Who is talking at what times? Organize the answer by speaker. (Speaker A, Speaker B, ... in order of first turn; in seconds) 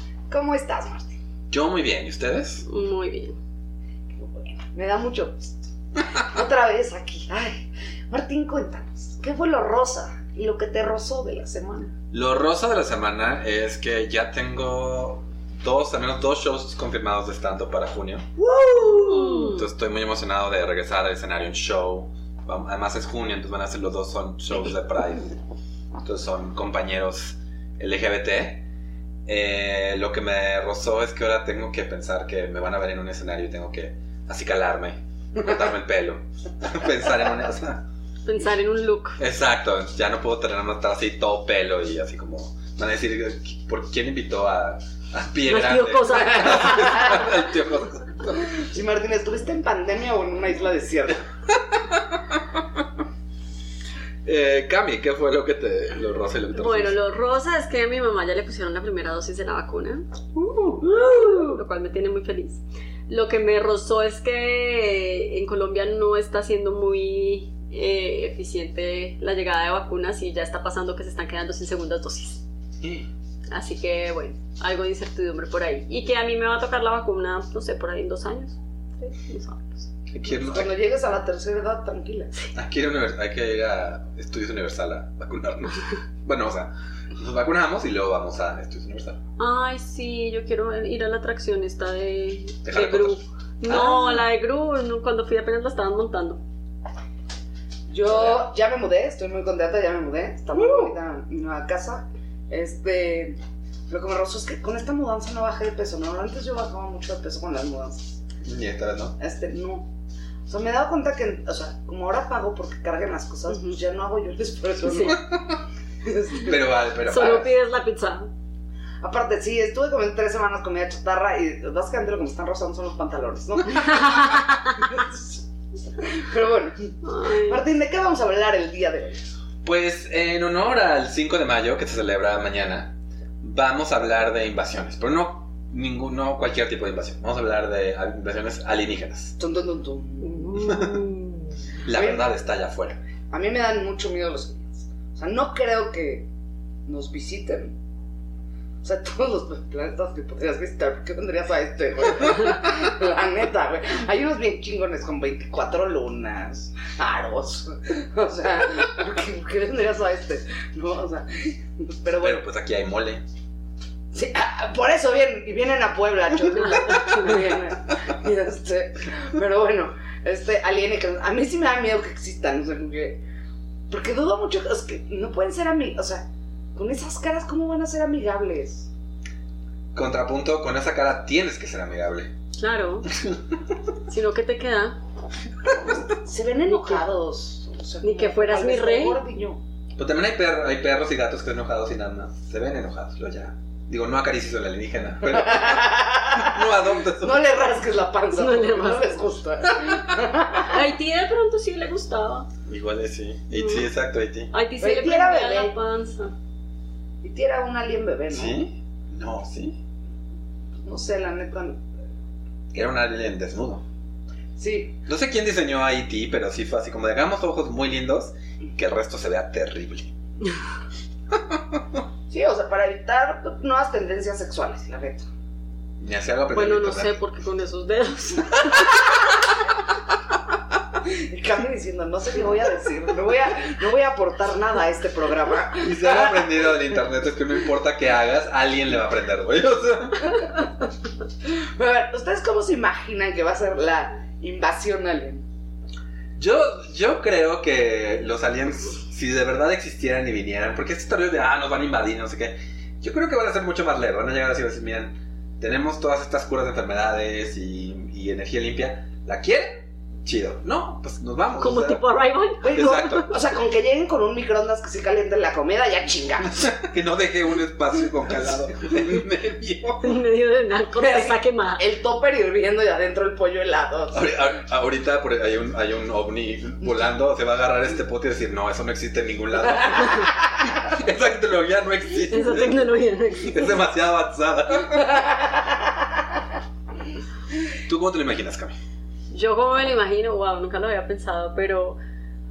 Speaker A: 0.3-1.2, 4.1-11.9, 18.5-19.2, 46.1-47.3, 48.4-51.2, 80.4-82.3, 97.9-103.4, 103.9-108.2, 109.2-109.9, 110.5-115.3, 116.0-116.6, 119.0-125.4, 126.0-129.3, 139.4-140.8, 141.9-142.2, 143.3-146.3, 146.9-147.8, 148.8-162.4, 164.1-173.2, 173.9-178.9, 185.9-189.6, 195.3-196.6, 197.2-200.8, 204.8-205.7, 207.2-208.6, 210.8-211.8, 214.6-215.0, 222.3-225.3, 231.0-236.7, 241.5-245.4, 262.6-266.7, 271.0-274.3, 285.2-285.7
Speaker B: 1.5-2.6, 12.1-18.3, 18.8-25.4, 26.0-28.6, 29.3-37.8, 39.2-48.4, 54.2-57.0, 72.8-73.1, 80.1-80.7, 82.5-89.2, 92.7-94.2, 98.1-98.5, 108.4-109.2, 116.4-117.5, 129.6-139.4, 140.6-141.0, 141.8-143.0, 162.2-163.2, 179.9-182.3, 183.1-183.4, 190.0-197.6, 202.7-204.5, 208.3-209.8, 212.7-213.8, 215.1-220.1, 226.0-227.2, 235.8-240.5, 246.4-262.1, 262.8-263.3, 266.5-270.2, 274.1-282.9, 283.4-285.2, 287.9-288.8
Speaker C: 2.7-3.4, 18.7-19.7, 38.2-39.2, 45.5-47.2, 56.5-72.4, 73.5-79.9, 89.4-96.4, 100.6-100.9, 114.9-115.2, 117.0-118.3, 123.8-124.8, 127.0-127.6, 140.3-141.4, 166.5-167.6, 182.6-183.1, 184.1-185.0, 186.7-187.0, 188.0-189.2, 198.3-199.2, 200.6-202.5, 203.5-203.9, 204.5-206.3, 226.5-229.4, 261.6-263.4, 270.0-271.8, 280.0-280.3, 282.3-283.8, 289.3-292.0